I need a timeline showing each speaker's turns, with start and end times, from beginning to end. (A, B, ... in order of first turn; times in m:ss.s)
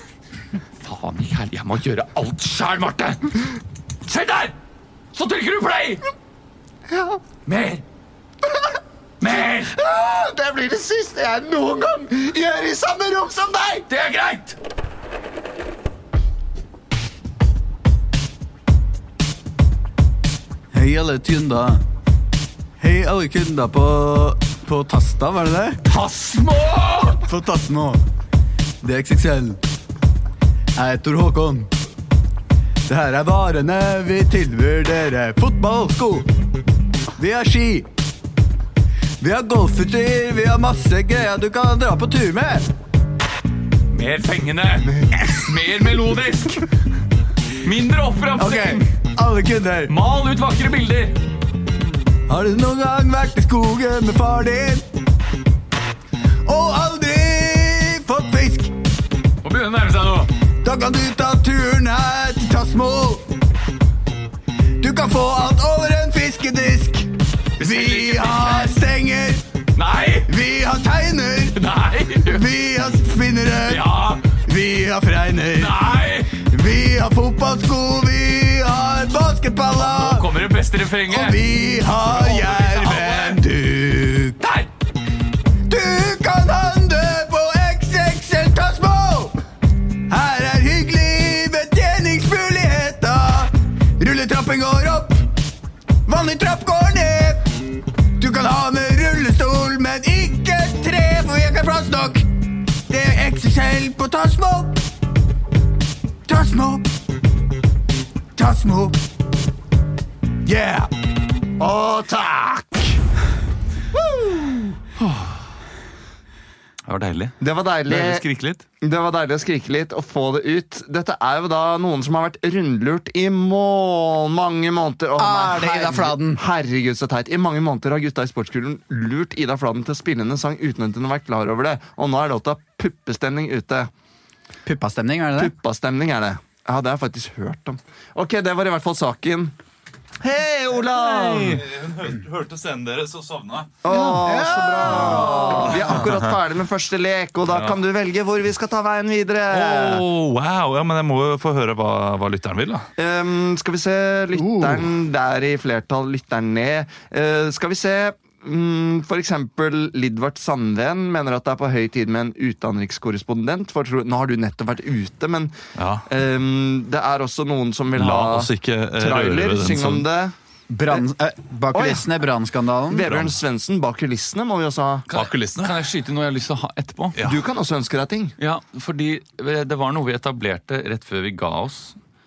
0:00.8-0:04.6 A
0:05.1-0:06.0 A
0:06.9-0:07.2 B
0:07.4-0:07.8 A
0:09.2-0:09.7 A
0:09.2-0:13.9 B
0:13.9-0:14.6 A
0:20.7-0:21.8 C
0:22.8-0:25.8 C
0:25.8-0:27.2 A
0:27.2-0:28.0 C
0:28.8-0:29.6 C
0:30.8-0:31.7 C
0:32.9-0:36.3 C
0:37.2-0:37.9 C
0:39.2-0:42.7 C
0:43.9-0:46.7 A
0:44.8-0:45.3 B
0:47.6-0:48.9 A
0:48.4-0:49.9 C
0:49.9-0:51.2 A
0:52.3-0:54.8 C
0:56.4-0:58.7 C
0:59.4-1:00.3 A
1:00.6-1:03.3 C
1:04.8-1:09.4 C
1:07.6-1:08.8 A
1:09.8-1:10.3 A
1:10.2-1:11.6 C
1:11.5-1:12.5 A
1:12.2-1:20.3 C
1:13.6-1:14.3 A
1:15.5-1:16.4 A
1:19.8-1:23.4 A
1:21.1-1:24.4 C
1:24.4-1:24.7 A
1:25.7-1:29.4 C
1:30.1-1:35.2 C
1:36.1-1:37.6 C
1:38.2-1:42.3 C
1:42.9-1:44.8 C
1:46.3-1:46.8 C
1:48.4-1:49.0 C
1:50.4-1:50.9 C
1:51.6-1:53.0 B
1:53.9-1:54.8 B
1:55.0-1:55.4 A
1:56.8-1:58.6 A
1:57.4-1:58.2 B
1:58.8-2:13.9 B
2:05.2-2:06.4 C
2:14.6-2:15.5 C
2:15.4-2:19.5 B
2:20.2-2:21.7 B
2:21.1-2:23.8 D
2:23.8-2:30.0 B
2:23.9-2:26.0 C
2:24.8-2:26.3 D
2:27.5-2:27.8 D
2:29.5-2:32.9 D
2:33.0-2:45.5 B
2:34.4-2:34.8 C
2:45.8-2:46.1 D
2:46.1-2:50.3 B
2:47.9-2:50.1 D
2:50.7-2:53.0 C
2:51.7-2:52.1 B
2:52.9-2:55.0 B
2:53.0-2:53.4 D
2:55.1-2:57.2 A
2:55.1-2:55.8 D
2:57.2-2:57.4 D
2:57.2-2:58.3 B
2:58.4-3:02.0 A